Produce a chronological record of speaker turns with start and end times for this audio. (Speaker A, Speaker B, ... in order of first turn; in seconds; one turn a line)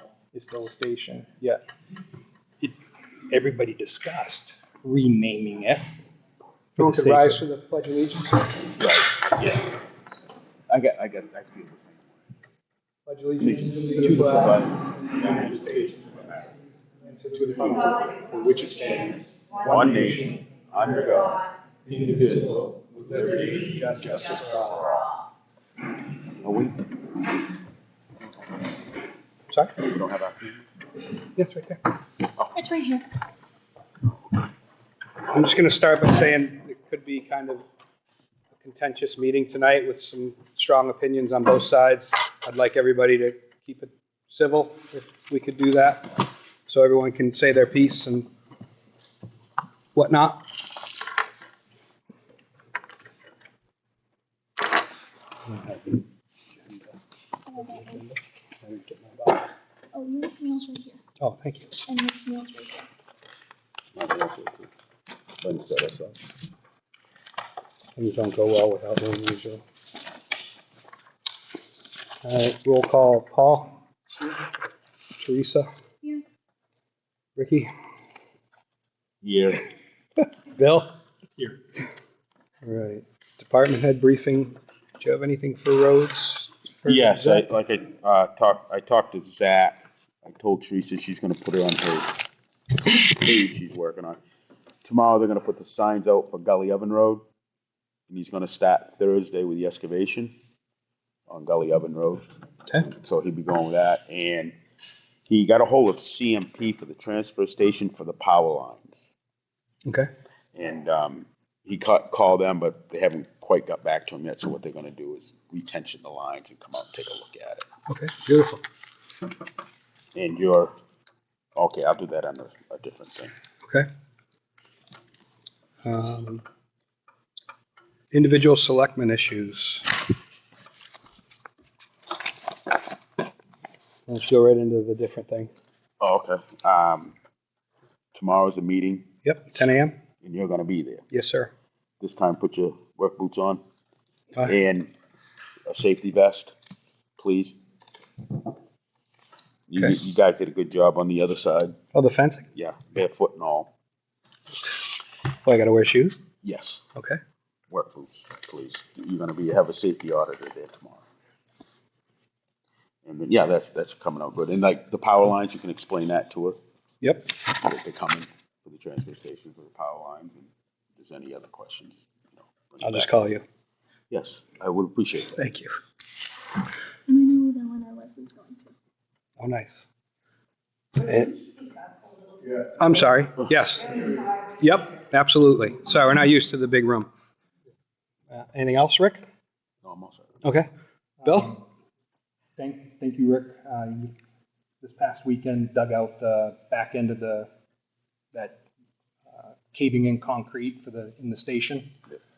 Speaker A: 0.3-1.6
Speaker A: 3.3-6.0
Speaker A: 6.8-7.4
Speaker B: 6.8-8.7
Speaker C: 8.8-9.7
Speaker C: 10.7-12.1
Speaker B: 13.1-15.9
Speaker C: 13.4-15.9
Speaker A: 13.9-14.6
Speaker A: 15.2-16.4
Speaker B: 17.0-18.0
Speaker A: 17.3-20.4
Speaker C: 19.6-21.4
Speaker A: 21.9-22.7
Speaker B: 23.0-24.9
Speaker C: 26.4-26.9
Speaker B: 29.5-29.8
Speaker C: 29.8-30.6
Speaker B: 31.4-31.8
Speaker D: 32.5-33.0
Speaker B: 35.3-37.6
Speaker B: 38.6-48.3
Speaker B: 49.9-50.7
Speaker B: 55.5-56.0
Speaker B: 56.7-56.9
Speaker D: 57.5-58.0
Speaker B: 57.6-59.5
Speaker D: 59.9-61.0
Speaker B: 61.2-61.7
Speaker D: 61.8-62.9
Speaker C: 63.9-64.7
Speaker C: 65.4-66.2
Speaker B: 68.0-69.6
Speaker B: 72.2-73.8
Speaker B: 75.2-75.7
Speaker B: 77.4-77.7
Speaker C: 79.2-79.7
Speaker B: 80.5-80.9
Speaker B: 82.6-87.4
Speaker C: 86.8-92.2
Speaker C: 92.9-94.2
Speaker C: 94.8-97.2
Speaker C: 98.1-100.3
Speaker C: 101.3-102.2
Speaker C: 102.8-104.5
Speaker C: 105.3-109.1
Speaker C: 110.5-117.7
Speaker B: 117.9-118.6
Speaker C: 120.1-120.7
Speaker C: 121.5-123.3
Speaker B: 125.8-126.4
Speaker B: 128.1-129.9
Speaker B: 134.1-135.5
Speaker C: 136.0-137.1
Speaker C: 138.1-139.1
Speaker B: 139.2-140.0
Speaker C: 140.2-141.0
Speaker B: 141.1-141.5
Speaker C: 142.0-143.6
Speaker C: 144.4-144.9
Speaker C: 145.7-146.5
Speaker C: 147.2-147.6
Speaker C: 149.7-151.7
Speaker B: 151.9-152.5
Speaker C: 152.5-153.7
Speaker B: 155.4-156.1
Speaker C: 156.4-156.8
Speaker C: 157.7-161.0
Speaker C: 163.0-166.6
Speaker B: 167.0-167.4
Speaker C: 167.5-173.1
Speaker B: 172.8-173.4
Speaker C: 174.1-175.4
Speaker B: 175.3-175.7
Speaker D: 177.1-178.7
Speaker B: 179.4-179.8
Speaker B: 181.0-181.4
Speaker B: 182.5-187.1
Speaker B: 188.3-189.2
Speaker C: 189.8-190.4
Speaker A: 191.2-191.6
Speaker B: 191.2-191.5
Speaker A: 192.6-194.1
Speaker A: 194.8-197.5
Speaker A: 198.3-198.6
Speaker A: 199.3-201.9